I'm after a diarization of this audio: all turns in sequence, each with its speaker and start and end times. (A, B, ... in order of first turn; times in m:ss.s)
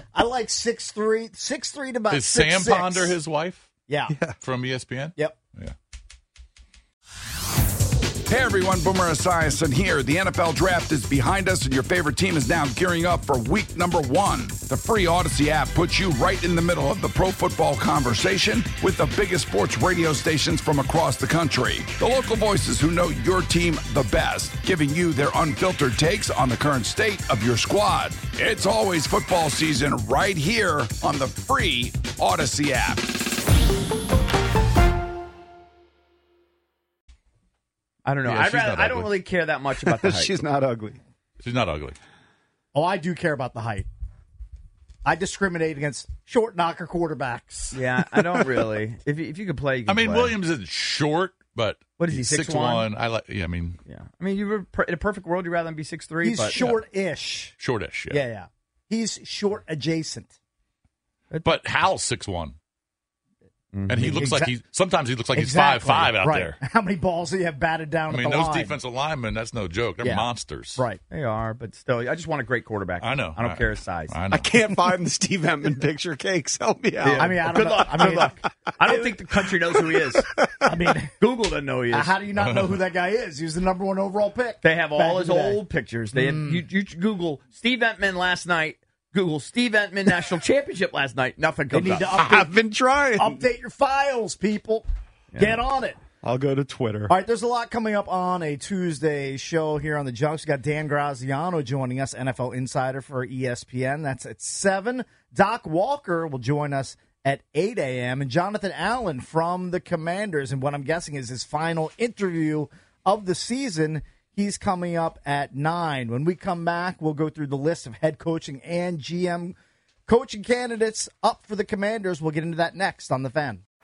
0:00.1-0:03.2 A
0:02.1-0:03.7 B
0:03.9-0:04.2 A
0:04.1-0:04.4 C
0:04.4-0:05.7 B
0:08.3-0:33.0 D
0:38.0-0:40.4 E
0:38.2-0:39.2 B
0:39.8-0:41.0 C
0:41.4-0:42.0 B
0:42.7-0:43.9 A
0:45.0-0:47.8 A
0:47.7-0:50.4 E
0:49.9-0:53.8 B
0:52.0-0:52.9 E
0:53.8-0:56.7 E
0:56.2-0:57.6 A
0:56.6-0:56.8 B
0:57.6-0:58.2 B
0:58.1-1:00.3 A
1:01.4-1:02.6 B
1:03.7-1:04.3 E
1:03.9-1:06.6 B
1:04.0-1:04.6 A
1:05.3-1:08.8 A
1:08.1-1:10.8 B
1:10.0-1:11.0 A
1:11.1-1:14.2 E
1:13.0-1:14.5 B
1:14.3-1:17.6 C
1:17.0-1:20.2 E
1:17.2-1:19.1 A
1:19.5-1:20.3 C
1:20.6-1:21.1 A
1:21.2-1:22.2 E
1:21.9-1:26.6 A
1:22.4-1:22.8 B
1:24.6-1:32.2 E
1:31.7-1:32.5 A
1:32.1-1:33.4 C
1:33.2-1:34.9 A
1:35.3-1:35.6 E
1:35.4-1:36.0 A
1:36.2-1:37.1 C
1:37.1-1:59.6 A
2:00.1-2:03.6 A